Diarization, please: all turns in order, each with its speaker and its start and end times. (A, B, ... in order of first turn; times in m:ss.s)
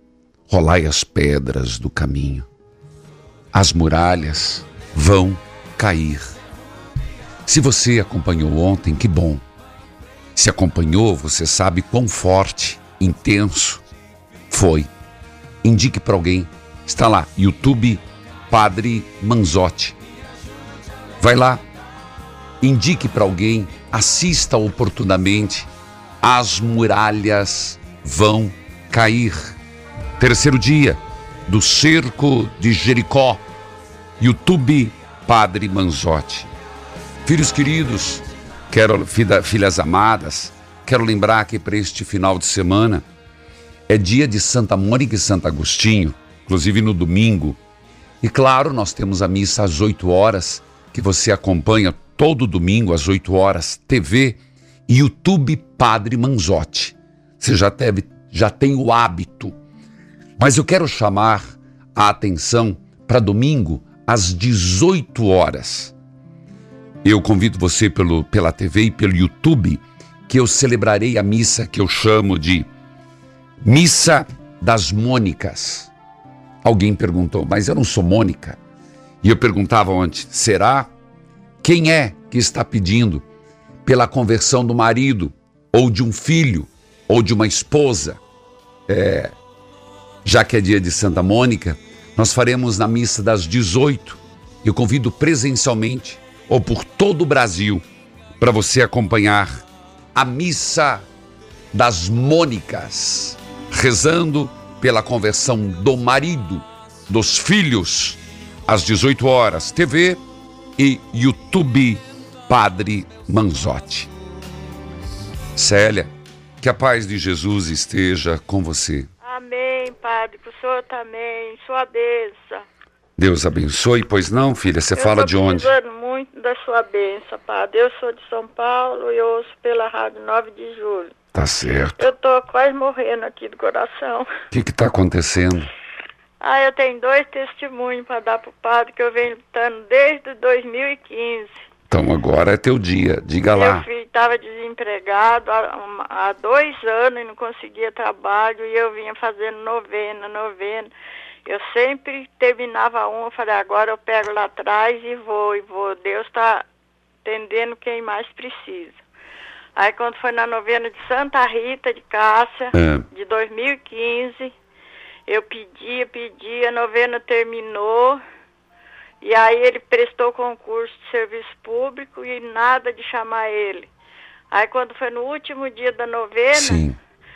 0:00.5-0:02.5 A
0:03.5-0:06.4 A
0:07.5-0:09.4 A
0:10.4-0:13.8 A
0:14.5-0:14.9 A
0:15.6-0:20.0 A
0:21.2-0:21.6 A
0:22.6-0:25.7 A
0:26.2-0:29.6 A
0:30.2-0:33.4 A
0:34.2-0:36.5 A
0:37.2-0:43.1 A
0:43.9-0:47.6 A
0:48.2-0:59.6 A
1:00.4-1:05.9 A
1:07.0-1:12.7 A
1:13.6-1:15.9 A
1:16.6-1:18.6 A
1:19.2-1:20.9 A
1:21.6-1:23.3 A
1:23.8-1:28.2 A
1:28.9-1:29.4 A
1:30.2-1:37.8 A
1:38.4-1:41.1 A
1:41.7-1:50.2 A
1:50.8-1:54.1 A
1:55.6-1:59.1 A
1:59.2-2:02.6 B
2:03.2-2:05.7 A
2:05.0-2:11.1 B
2:11.3-2:12.1 A
2:12.0-2:14.3 B
2:14.5-2:15.7 A
2:16.4-2:21.5 B
2:21.9-2:23.9 A
2:23.5-2:30.9 B
2:31.5-2:36.6 B
2:37.2-2:39.0 B
2:39.8-2:44.5 B
2:42.7-2:43.1 A
2:45.3-2:48.2 B
2:49.2-2:53.9 B
2:54.5-2:56.8 B
2:56.5-2:57.0 A